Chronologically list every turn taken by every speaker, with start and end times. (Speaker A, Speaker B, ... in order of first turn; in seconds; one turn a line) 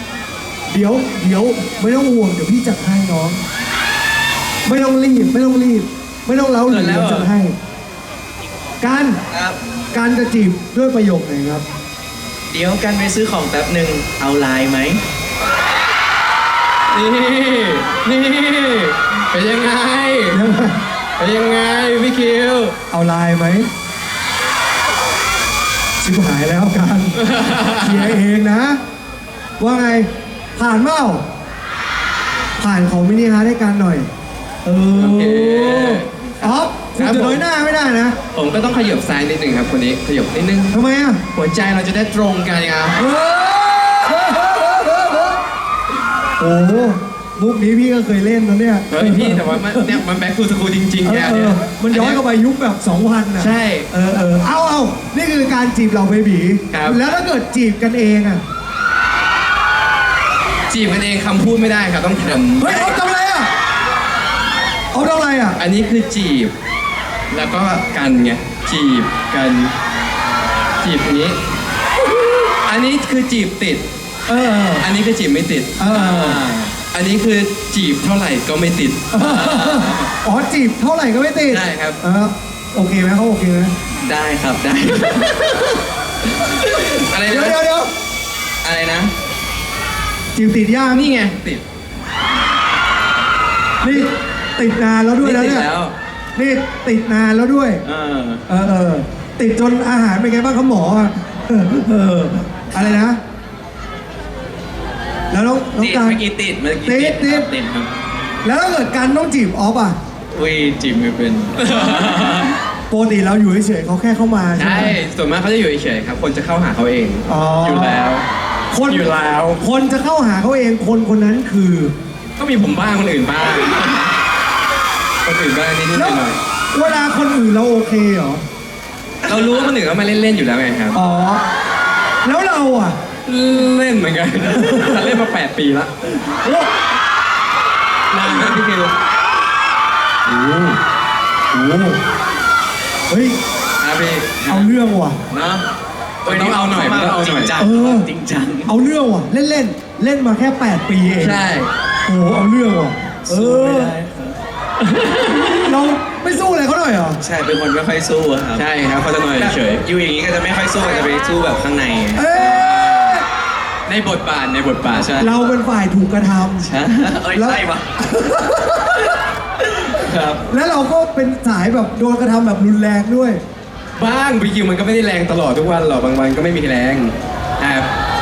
Speaker A: 0.7-3.4
Speaker A: 4.7-7.5
Speaker B: 6.7-7.3
Speaker A: 8.8-9.2
Speaker C: 9.3-9.6
Speaker A: 9.9-11.6
Speaker C: 12.5-15.0
Speaker B: 16.9-20.4
Speaker A: 20.3-20.8
Speaker B: 21.2-22.7
Speaker A: 22.9-23.7
Speaker A: 26.0-28.8
Speaker B: 27.1-28.2
Speaker A: 29.6-31.2
Speaker A: 32.6-34.1
Speaker A: 34.6-38.1
Speaker B: 34.9-37.4
Speaker B: 38.3-40.7
Speaker A: 40.7-41.2
Speaker B: 41.3-43.0
Speaker A: 43.0-45.4
Speaker A: 46.4-50.0
Speaker B: 48.9-52.2
Speaker A: 51.0-58.4
Speaker B: 53.4-53.9
Speaker B: 56.7-57.0
Speaker B: 60.7-63.0
Speaker A: 62.6-63.5
Speaker A: 64.9-65.6
Speaker B: 65.6-66.5
Speaker B: 67.3-69.7
Speaker B: 70.8-71.4
Speaker B: 72.7-73.8
Speaker A: 74.3-74.8
Speaker B: 74.8-75.9
Speaker A: 75.8-76.4
Speaker C: 75.9-76.8
Speaker B: 76.8-79.9
Speaker A: 79.1-83.7
Speaker B: 81.5-82.0
Speaker C: 84.0-85.8
Speaker C: 86.4-87.0
Speaker B: 86.9-87.6
Speaker A: 87.2-87.9
Speaker C: 88.6-89.1
Speaker A: 90.3-91.1
Speaker B: 90.9-91.6
Speaker A: 93.8-95.7
Speaker B: 95.4-95.9
Speaker A: 96.3-97.8
Speaker C: 97.8-98.4
Speaker A: 98.5-103.2
Speaker A: 105.3-106.2
Speaker C: 105.8-107.9
Speaker A: 106.8-107.5
Speaker A: 108.4-110.0
Speaker C: 110.3-112.5
Speaker B: 111.5-112.5
Speaker A: 112.9-115.0
Speaker B: 114.5-118.2
Speaker A: 117.3-118.0
Speaker A: 118.7-121.9
Speaker B: 118.8-119.6
Speaker B: 122.4-124.1
Speaker B: 125.2-126.4
Speaker A: 125.9-128.4
Speaker B: 129.2-131.0
Speaker A: 130.9-131.4
Speaker A: 132.2-133.0
Speaker B: 133.2-135.9
Speaker A: 134.6-134.9
Speaker A: 136.2-136.7
Speaker B: 138.1-138.9
Speaker A: 138.3-138.6
Speaker A: 140.2-140.8
Speaker A: 141.5-142.0
Speaker A: 143.1-143.4
Speaker B: 143.8-144.7
Speaker A: 144.5-145.2
Speaker C: 145.3-145.6
Speaker B: 146.2-147.6
Speaker C: 146.2-148.7
Speaker A: 147.6-148.1
Speaker A: 148.7-151.4
Speaker B: 151.2-151.7
Speaker A: 152.1-153.9
Speaker C: 153.2-154.4
Speaker B: 154.9-155.6
Speaker A: 155.6-157.2
Speaker C: 157.2-158.6
Speaker B: 158.5-159.8
Speaker C: 159.4-162.3
Speaker A: 162.1-163.2
Speaker B: 162.3-163.2
Speaker B: 163.9-165.2
Speaker C: 164.9-165.4
Speaker A: 165.2-166.7
Speaker C: 166.6-167.8
Speaker A: 167.3-169.1
Speaker C: 169.9-170.4
Speaker A: 170.5-173.4
Speaker B: 173.9-177.9